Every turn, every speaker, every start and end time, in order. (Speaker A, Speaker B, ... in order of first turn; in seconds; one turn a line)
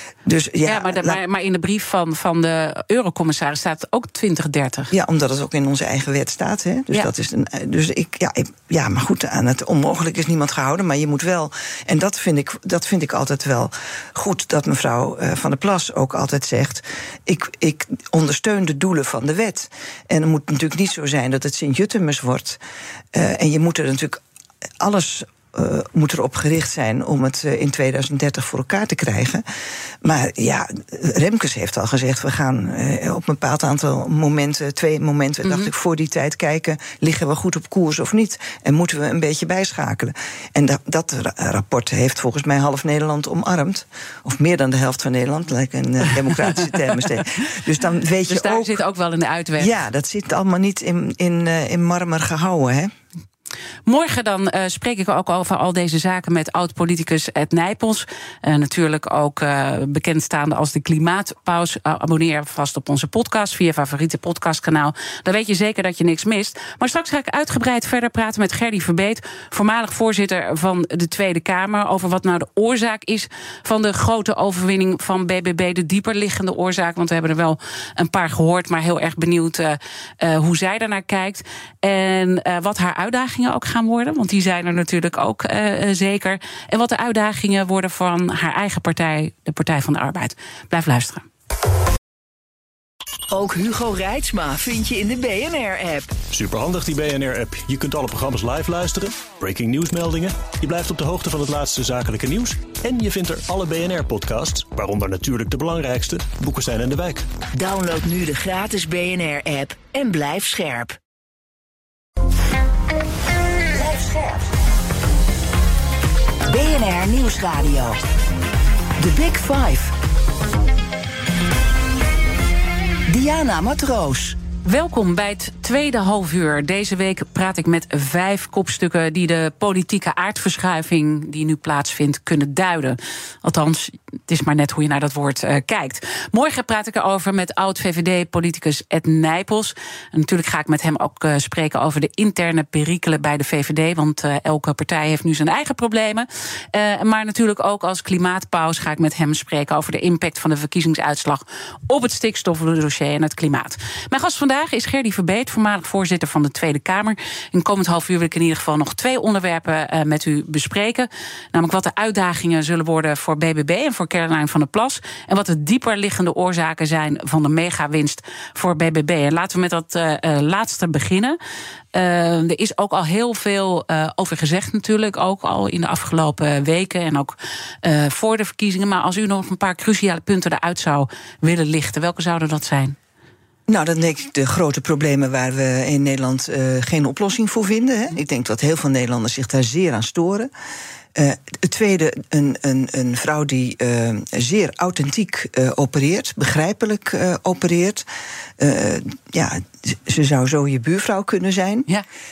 Speaker A: 0.2-1.2
Speaker B: 0.6-4.9
Speaker A: 4.9-22.6
Speaker A: 23.1-24.2
Speaker A: 24.8-29.4
Speaker A: 30.0-48.8
Speaker B: 35.4-35.7
Speaker B: 48.3-49.7
Speaker A: 49.6-52.9
Speaker B: 53.9-91.3
Speaker C: 93.3-96.1
Speaker D: 96.3-107.3
Speaker C: 107.5-111.0
Speaker C: 113.7-114.5
Speaker C: 116.5-118.0
Speaker C: 119.0-119.9
Speaker C: 123.1-124.4
Speaker B: 124.6-171.4
Speaker B: 171.9-183.0
Speaker A: 183.7-190.5
Speaker A: 191.1-198.0
Speaker A: 198.6-201.9